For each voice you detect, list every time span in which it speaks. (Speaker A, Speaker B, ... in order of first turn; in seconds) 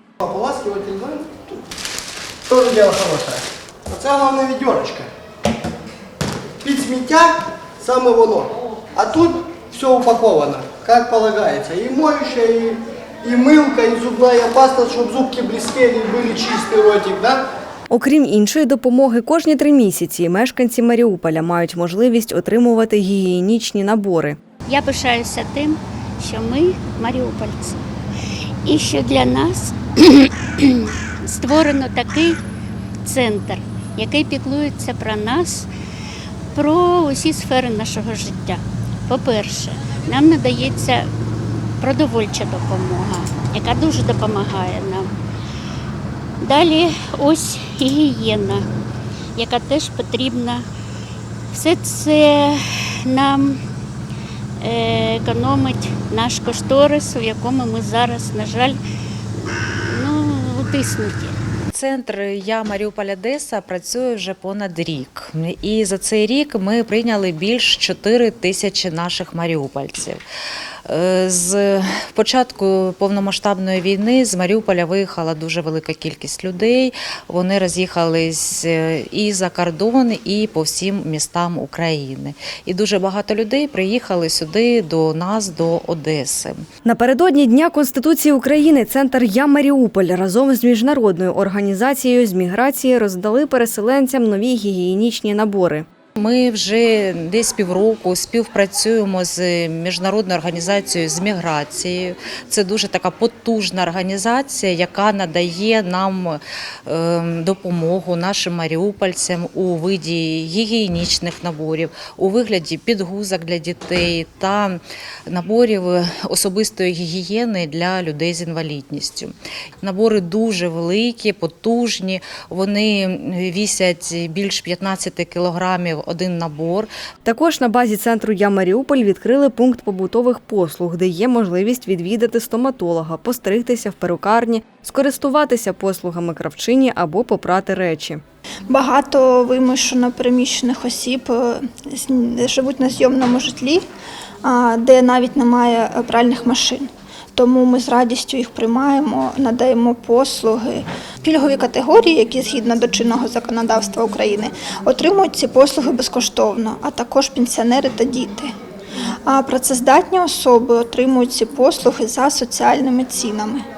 Speaker A: 0.2-1.6, 2.5-5.1, 6.6-17.4
Speaker B: 17.9-24.4, 86.9-95.9, 127.2-138.2
Speaker C: 24.7-27.8, 28.7-32.4, 33.0-35.7, 36.5-45.1, 46.4-48.7, 49.4-50.6, 51.5-53.6, 54.6-58.8, 59.4-61.4
Speaker D: 61.7-70.2, 70.9-86.6, 96.2-126.9
Speaker E: 138.7-143.8, 144.4-158.5, 159.3-163.6